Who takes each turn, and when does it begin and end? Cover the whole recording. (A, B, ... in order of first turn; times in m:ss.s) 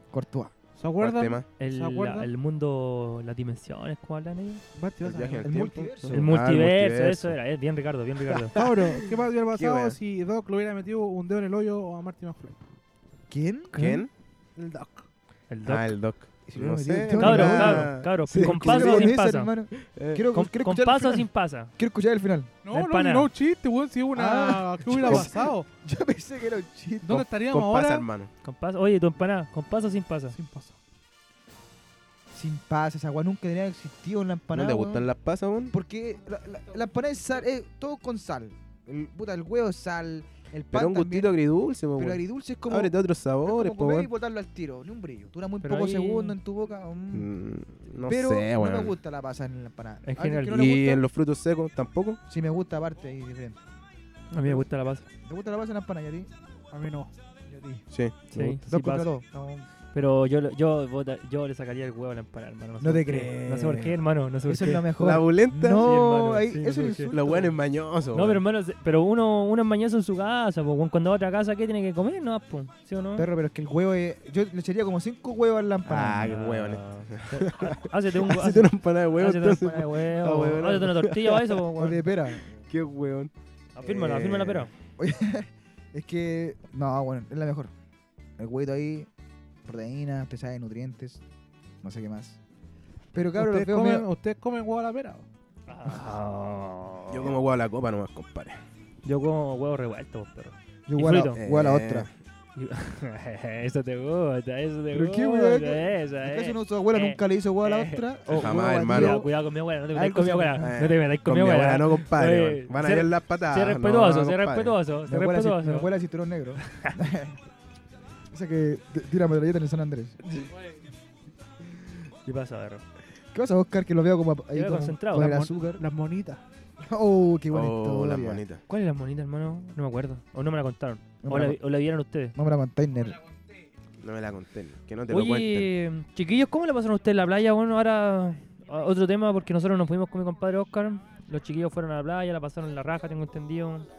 0:00.1-0:00.5 A
0:00.8-0:02.3 B
0:01.0-0:01.4 C
0:01.6-0:04.6 D
0:04.7-0:05.6 B
0:05.0-0:07.3 C
0:05.4-0:06.3 A
0:06.1-0:08.5 D
0:08.5-0:12.6 B
0:09.5-0:10.0 C
0:13.3-0:14.0 A
0:13.7-0:14.0 D
0:13.7-0:14.1 C
0:14.6-0:15.1 B
0:15.5-0:15.9 D
0:15.6-0:19.1 C
0:16.5-0:22.5 A
0:17.2-0:19.5 D
0:19.8-0:20.2 C
0:20.3-0:21.7 D
0:22.6-0:25.7 B
0:22.7-0:23.3 D
0:24.1-0:27.3 A
0:27.0-0:28.1 B
0:27.4-0:28.3 C
0:28.4-0:30.3 D
0:30.3-0:30.8 B
0:32.3-0:35.1 A
0:34.5-0:35.7 C
0:35.7-0:41.3 A
0:40.7-0:44.1 C
0:42.0-0:47.3 A
0:45.6-0:46.3 D
0:47.1-0:48.9 C
0:48.0-0:51.0 A
0:50.0-0:50.5 D
0:50.5-0:52.2 C
0:52.3-0:53.6 A
0:54.3-0:55.0 D
0:55.2-0:56.3 A
0:56.7-0:57.1 B
0:57.5-0:59.7 A
0:57.9-0:58.2 C
0:58.3-0:59.1 D
0:59.9-1:04.9 D
1:02.8-1:03.9 A
1:04.5-1:07.6 A
1:05.0-1:05.9 C
1:05.6-1:07.1 D
1:07.1-1:08.4 C
1:08.1-1:13.3 D
1:13.2-1:16.4 A
1:15.8-1:21.6 C
1:16.2-1:22.0 D
1:21.8-1:22.5 A
1:22.6-1:24.7 C
1:23.7-1:24.7 D
1:25.0-1:27.7 A
1:28.4-1:29.1 A
1:29.6-1:31.2 A
1:31.8-1:32.4 A
1:33.1-1:34.1 A
1:33.4-1:35.2 B
1:35.7-1:37.4 D
1:37.1-1:38.6 C
1:39.0-1:41.4 D
1:40.9-1:42.1 A
1:41.4-1:42.1 C
1:42.6-1:55.9 D
1:44.9-1:49.3 A
1:48.3-1:49.2 C
1:49.9-1:50.7 A
1:50.6-1:54.8 C
1:55.1-1:57.4 A
1:56.6-1:56.9 D
1:58.3-2:00.2 A
2:02.2-2:02.8 D
2:03.3-2:05.8 A
2:04.5-2:05.3 D
2:05.1-2:06.4 B
2:06.8-2:08.4 A
2:07.5-2:08.6 C
2:08.7-2:12.4 D
2:11.2-2:11.6 A
2:12.3-2:13.2 A
2:14.0-2:15.7 C
2:15.1-2:23.9 D